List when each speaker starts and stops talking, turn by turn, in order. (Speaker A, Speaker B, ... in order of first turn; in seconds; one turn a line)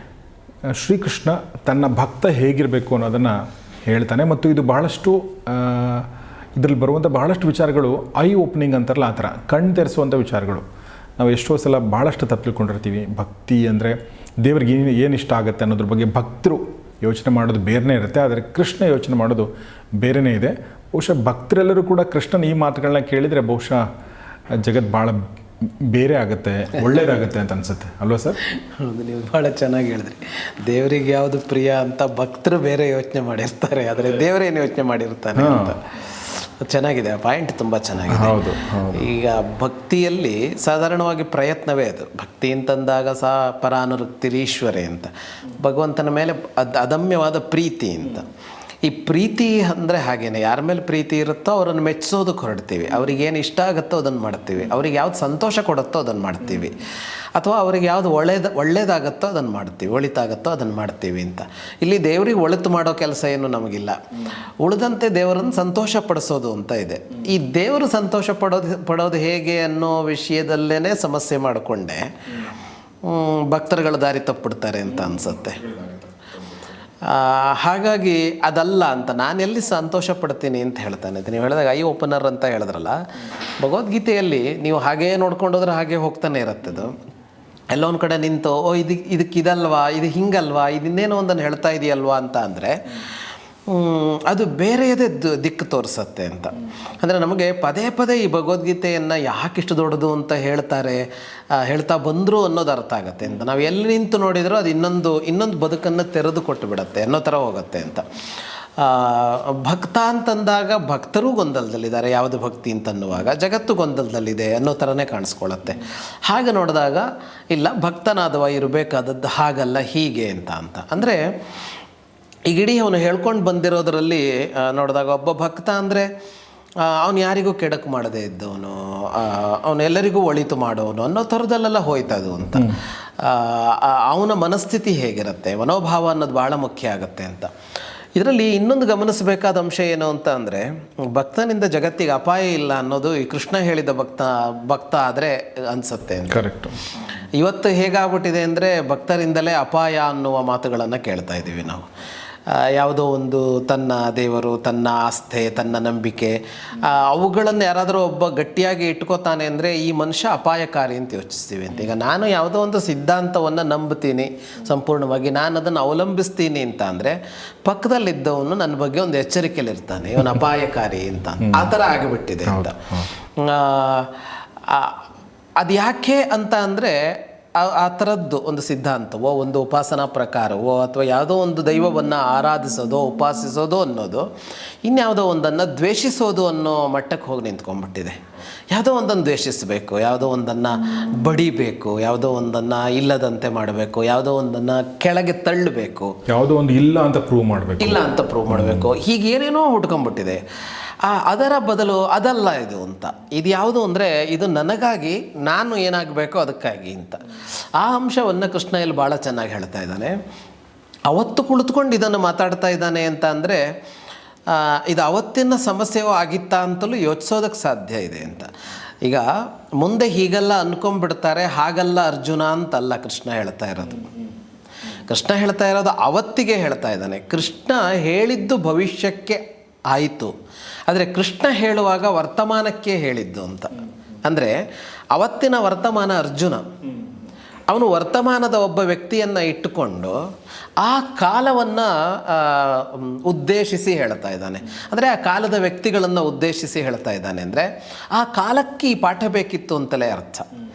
Speaker A: 0.7-10.6
Speaker A: 11.2-23.8
Speaker A: 24.6-25.2
Speaker A: 25.9-28.4
Speaker B: 28.4-48.3
Speaker A: 35.4-35.7
Speaker A: 38.1-39.0
Speaker B: 48.8-64.0
Speaker B: 64.6-72.1
Speaker B: 73.0-75.7
Speaker B: 77.0-83.0
Speaker B: 83.6-87.0
Speaker B: 87.7-93.1
Speaker B: 93.7-108.1
Speaker B: 108.8-121.2
Speaker B: 122.5-126.1
Speaker B: 126.8-137.5
Speaker B: 138.2-146.4
Speaker A: 146.3-146.8
Speaker B: 147.3-151.9
Speaker B: 152.4-172.8
Speaker A: 171.4-171.7
Speaker A: 172.4-173.1
Speaker B: 173.3-175.0
Speaker B: 175.6-184.3
Speaker B: 184.8-188.2
Speaker B: 188.7-196.2
Speaker A: 196.3-198.8
Speaker B: 197.8-200.4
Speaker B: 201.0-207.2
Speaker B: 207.8-210.2
Speaker B: 211.1-213.6
Speaker B: 214.5-218.5
Speaker B: 219.0-224.1
Speaker B: 225.1-230.3
Speaker B: 230.9-234.6
Speaker B: 235.1-236.7
Speaker B: 237.7-240.2
Speaker B: 240.8-250.5